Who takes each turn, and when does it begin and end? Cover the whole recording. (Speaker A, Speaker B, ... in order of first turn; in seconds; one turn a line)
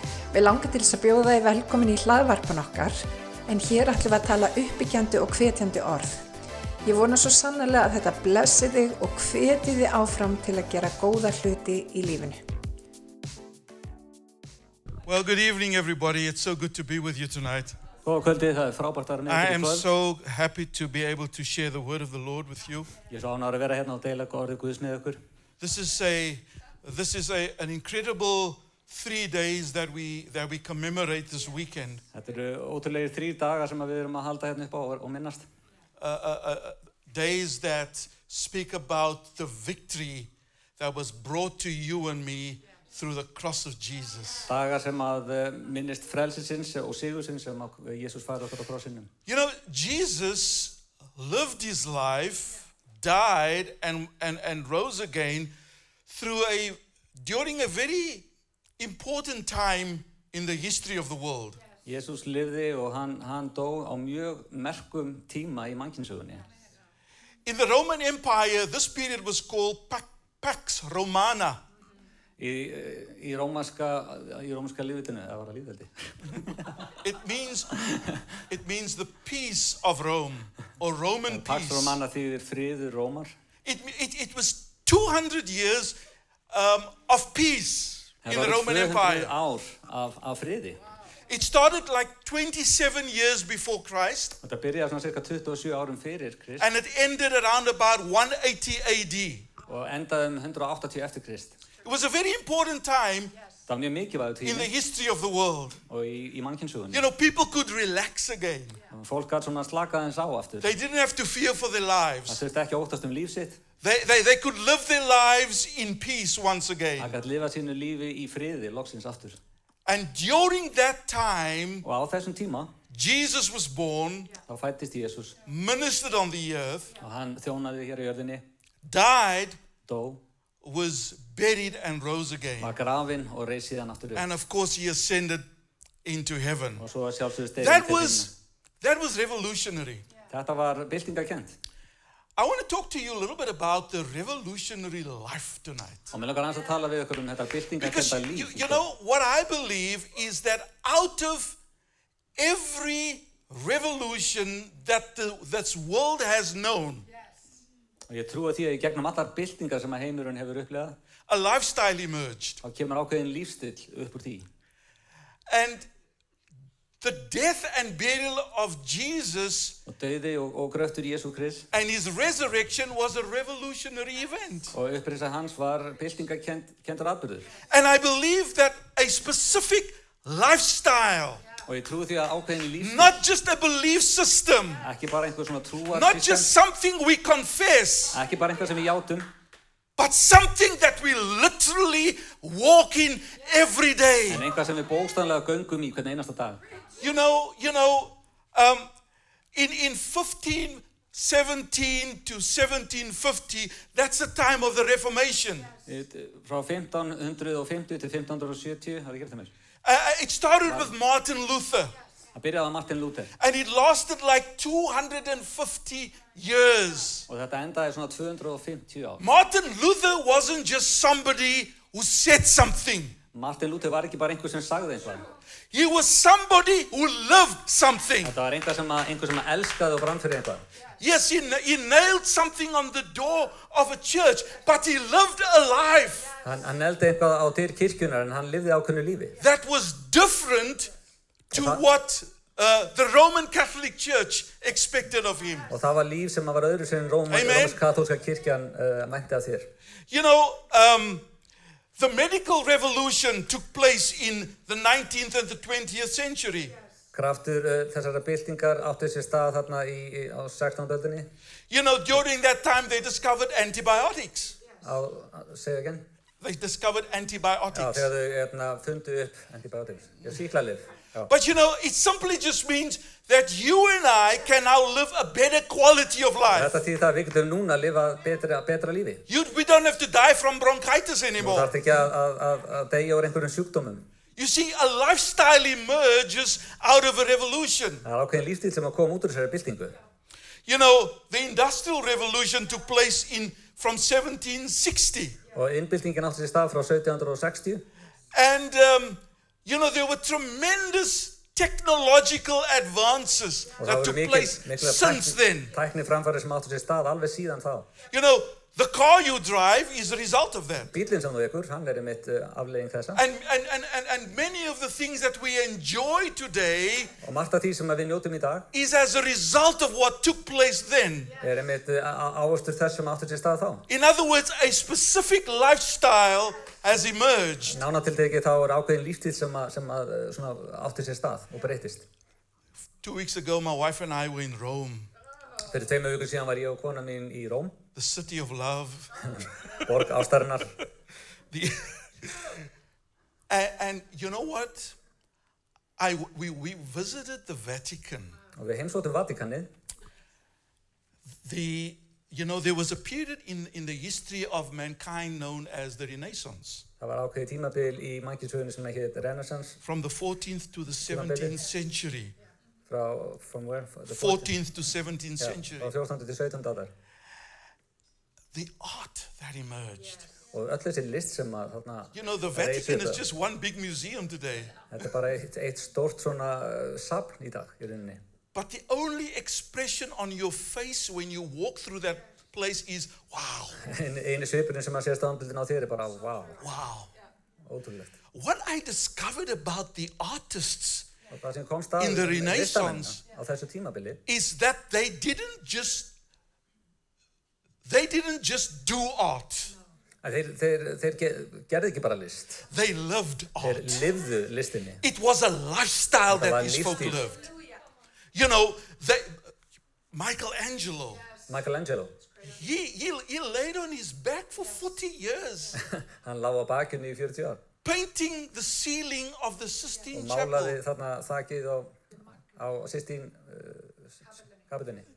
Speaker A: 0.3-6.2
Speaker A: 6.8-12.4
Speaker B: 15.1-17.8
Speaker C: 18.0-19.9
Speaker B: 19.3-22.9
Speaker C: 23.1-25.2
Speaker B: 25.6-32.0
Speaker C: 32.1-35.5
Speaker B: 36.0-44.5
Speaker C: 44.4-49.1
Speaker B: 49.3-55.5
Speaker B: 56.1-58.3
Speaker B: 58.8-61.6
Speaker C: 61.9-66.4
Speaker B: 67.4-71.6
Speaker C: 72.4-76.8
Speaker B: 77.0-77.8
Speaker C: 77.8-78.1
Speaker B: 78.5-82.0
Speaker C: 81.3-83.3
Speaker B: 83.7-86.0
Speaker B: 86.5-89.3
Speaker C: 88.2-90.8
Speaker B: 91.3-94.4
Speaker C: 94.4-96.7
Speaker B: 96.6-99.5
Speaker C: 99.7-101.6
Speaker B: 101.8-103.3
Speaker C: 103.7-104.7
Speaker B: 104.4-105.8
Speaker C: 105.9-107.1
Speaker B: 106.9-108.8
Speaker C: 108.9-110.7
Speaker B: 110.6-112.4
Speaker C: 112.3-113.6
Speaker B: 113.8-117.1
Speaker C: 117.0-119.4
Speaker B: 119.8-121.8
Speaker C: 121.8-122.7
Speaker B: 122.9-124.3
Speaker C: 124.5-125.4
Speaker B: 125.5-126.9
Speaker C: 127.0-128.4
Speaker B: 128.8-129.6
Speaker C: 129.8-130.2
Speaker B: 130.6-132.7
Speaker C: 132.6-134.2
Speaker B: 134.1-135.4
Speaker B: 136.0-136.8
Speaker C: 136.8-138.3
Speaker B: 137.6-140.0
Speaker C: 140.3-141.6
Speaker B: 142.4-146.1
Speaker C: 146.1-148.8
Speaker B: 147.8-151.6
Speaker B: 152.4-157.1
Speaker C: 158.1-161.0
Speaker B: 161.3-162.6
Speaker C: 162.6-164.5
Speaker B: 165.5-165.9
Speaker B: 167.0-169.8
Speaker C: 169.8-171.7
Speaker B: 171.7-174.8
Speaker C: 174.7-177.5
Speaker B: 177.7-181.4
Speaker C: 181.6-183.2
Speaker B: 182.8-184.8
Speaker C: 184.8-186.5
Speaker B: 185.9-188.2
Speaker C: 188.1-189.3
Speaker B: 190.0-194.4
Speaker C: 194.3-196.6
Speaker B: 197.0-198.9
Speaker B: 199.5-205.7
Speaker C: 205.8-209.5
Speaker B: 209.8-211.9
Speaker C: 210.6-210.9
Speaker C: 212.3-213.3
Speaker B: 213.4-217.3
Speaker C: 217.3-219.2
Speaker B: 219.2-223.2
Speaker C: 223.3-225.3
Speaker B: 225.7-228.4
Speaker C: 228.2-230.6
Speaker B: 231.0-236.3
Speaker C: 236.4-239.4
Speaker B: 239.4-240.9
Speaker B: 241.5-245.7
Speaker C: 241.5-241.8
Speaker C: 245.7-249.7
Speaker B: 247.3-247.8
Speaker B: 250.1-251.2
Speaker B: 252.0-256.8
Speaker C: 257.1-261.3
Speaker B: 261.7-264.6
Speaker C: 264.8-266.1
Speaker B: 266.4-268.1
Speaker C: 267.7-271.3
Speaker B: 271.3-276.7
Speaker C: 276.5-279.2
Speaker B: 279.3-281.7
Speaker C: 281.4-284.1
Speaker B: 284.4-288.1
Speaker C: 288.0-289.9
Speaker B: 290.7-295.4
Speaker C: 295.5-297.9
Speaker B: 298.3-305.7
Speaker C: 303.8-307.9
Speaker B: 308.1-310.9
Speaker C: 310.9-313.2
Speaker B: 313.1-317.1
Speaker C: 317.2-318.7
Speaker B: 318.7-321.3
Speaker C: 321.4-323.9
Speaker B: 323.9-327.8
Speaker C: 327.6-332.1
Speaker B: 333.0-335.1
Speaker C: 335.6-337.8
Speaker B: 337.9-339.1
Speaker C: 339.3-340.8
Speaker B: 341.5-342.5
Speaker B: 343.5-344.9
Speaker B: 346.0-348.4
Speaker C: 348.6-349.7
Speaker B: 351.4-356.9
Speaker C: 357.0-359.8
Speaker B: 359.8-362.3
Speaker C: 361.1-361.6
Speaker C: 362.9-364.6
Speaker B: 364.1-365.9
Speaker C: 365.4-366.9
Speaker B: 368.5-370.2
Speaker C: 370.5-373.2
Speaker B: 372.1-374.7
Speaker C: 374.9-378.2
Speaker B: 378.5-383.9
Speaker C: 383.8-386.6
Speaker B: 386.6-387.1
Speaker C: 387.6-388.1
Speaker B: 388.3-391.1
Speaker C: 391.3-394.2
Speaker B: 392.0-393.2
Speaker B: 394.2-396.1
Speaker B: 397.8-399.7
Speaker C: 400.2-402.6
Speaker B: 402.7-404.1
Speaker C: 403.6-405.0
Speaker B: 405.0-407.5
Speaker C: 406.3-407.3
Speaker B: 408.3-409.4
Speaker B: 410.1-411.2
Speaker C: 411.5-412.2
Speaker B: 412.4-415.8
Speaker C: 415.8-417.6
Speaker B: 417.8-420.8
Speaker C: 420.1-421.9
Speaker C: 422.6-424.1
Speaker C: 424.7-425.1